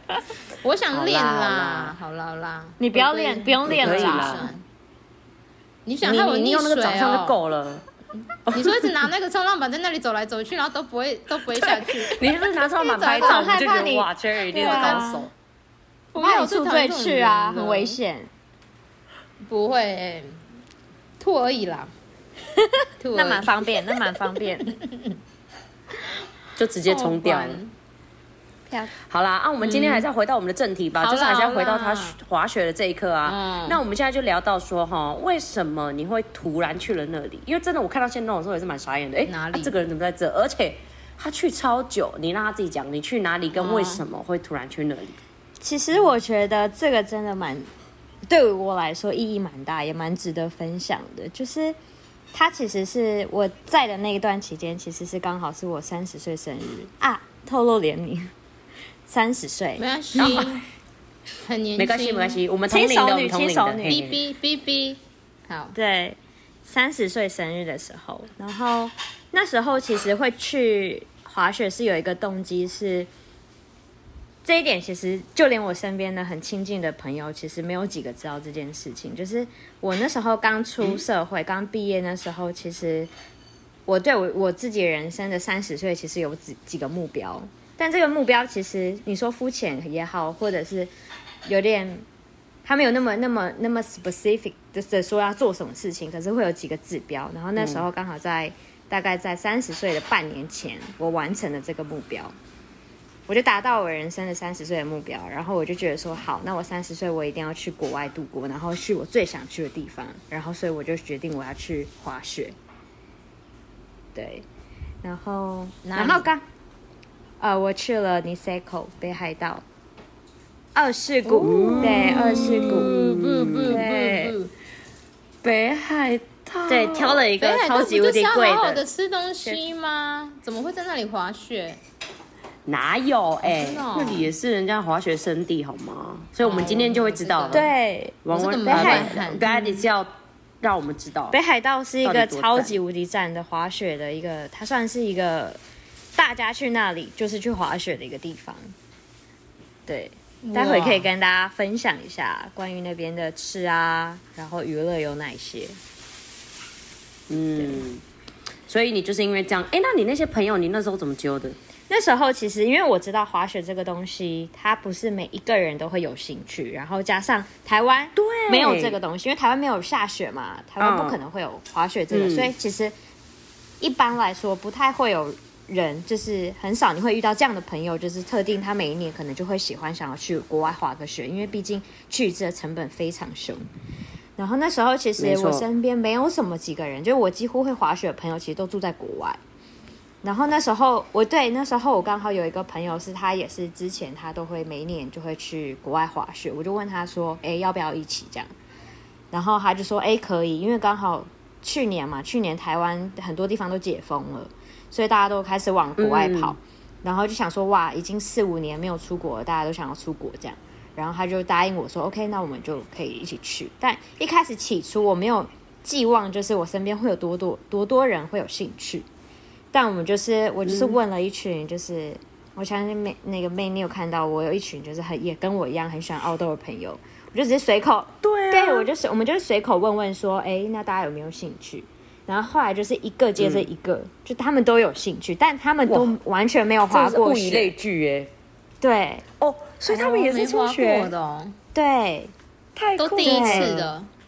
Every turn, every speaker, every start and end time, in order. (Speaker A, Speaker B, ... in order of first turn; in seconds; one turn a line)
Speaker A: 0.6-4.6
Speaker B: 0.9-1.9
Speaker C: 2.8-4.5
Speaker B: 3.7-4.5
Speaker A: 5.8-7.4
Speaker B: 6.0-7.8
Speaker B: 8.5-8.9
Speaker A: 8.5-13.9
Speaker B: 11.6-15.3
Speaker C: 13.2-15.3
Speaker A: 14.6-15.0
Speaker A: 16.1-18.0
Speaker C: 16.2-18.3
Speaker A: 19.4-20.4
Speaker A: 21.2-21.9
Speaker C: 22.6-24.7
Speaker A: 23.0-23.6
Speaker A: 24.6-25.1
Speaker B: 26.6-27.6
Speaker A: 26.9-27.7
Speaker B: 29.1-45.2
Speaker A: 29.6-30.1
Speaker A: 31.0-32.2
Speaker A: 33.2-33.8
Speaker A: 39.2-39.7
Speaker A: 43.5-44.0
Speaker C: 45.6-47.7
Speaker C: 48.3-51.8
Speaker C: 52.3-58.3
Speaker C: 59.1-60.4
Speaker A: 59.8-60.6
Speaker B: 60.2-60.6
Speaker A: 61.4-62.4
Speaker B: 61.8-64.2
Speaker C: 62.7-64.0
Speaker A: 63.9-65.8
Speaker C: 65.7-73.1
Speaker C: 74.4-83.1
Speaker C: 83.8-90.9
Speaker C: 91.5-92.0
Speaker C: 92.6-102.3
Speaker B: 97.6-97.8
Speaker C: 103.3-112.5
Speaker C: 114.1-114.5
Speaker C: 115.0-116.4
Speaker A: 115.8-116.3
Speaker C: 117.4-119.6
Speaker C: 120.7-124.3
Speaker B: 121.3-123.8
Speaker A: 121.6-124.5
Speaker B: 125.4-127.2
Speaker C: 126.7-128.8
Speaker A: 127.4-131.8
Speaker B: 132.7-137.7
Speaker A: 133.4-134.3
Speaker A: 136.4-137.7
Speaker C: 137.5-139.1
Speaker B: 138.2-140.1
Speaker A: 138.3-139.8
Speaker B: 140.6-141.3
Speaker C: 141.3-145.6
Speaker B: 142.0-142.8
Speaker C: 146.2-148.7
Speaker C: 149.9-155.8
Speaker A: 150.4-151.1
Speaker B: 157.3-158.0
Speaker B: 158.7-161.6
Speaker C: 161.9-172.9
Speaker B: 168.2-169.0
Speaker B: 170.8-171.2
Speaker B: 172.1-172.5
Speaker C: 173.8-183.6
Speaker C: 184.4-189.4
Speaker B: 185.2-185.7
Speaker C: 190.2-198.5
Speaker C: 199.3-219.1
Speaker B: 206.0-206.6
Speaker C: 219.7-237.7
Speaker B: 220.6-221.0
Speaker B: 228.2-228.9
Speaker B: 233.4-233.7
Speaker B: 235.8-236.1
Speaker B: 236.9-238.3
Speaker C: 238.8-239.2
Speaker B: 239.4-241.1
Speaker A: 239.9-241.6
Speaker C: 241.7-242.3
Speaker B: 242.8-243.9
Speaker A: 243.0-244.1
Speaker C: 243.2-243.8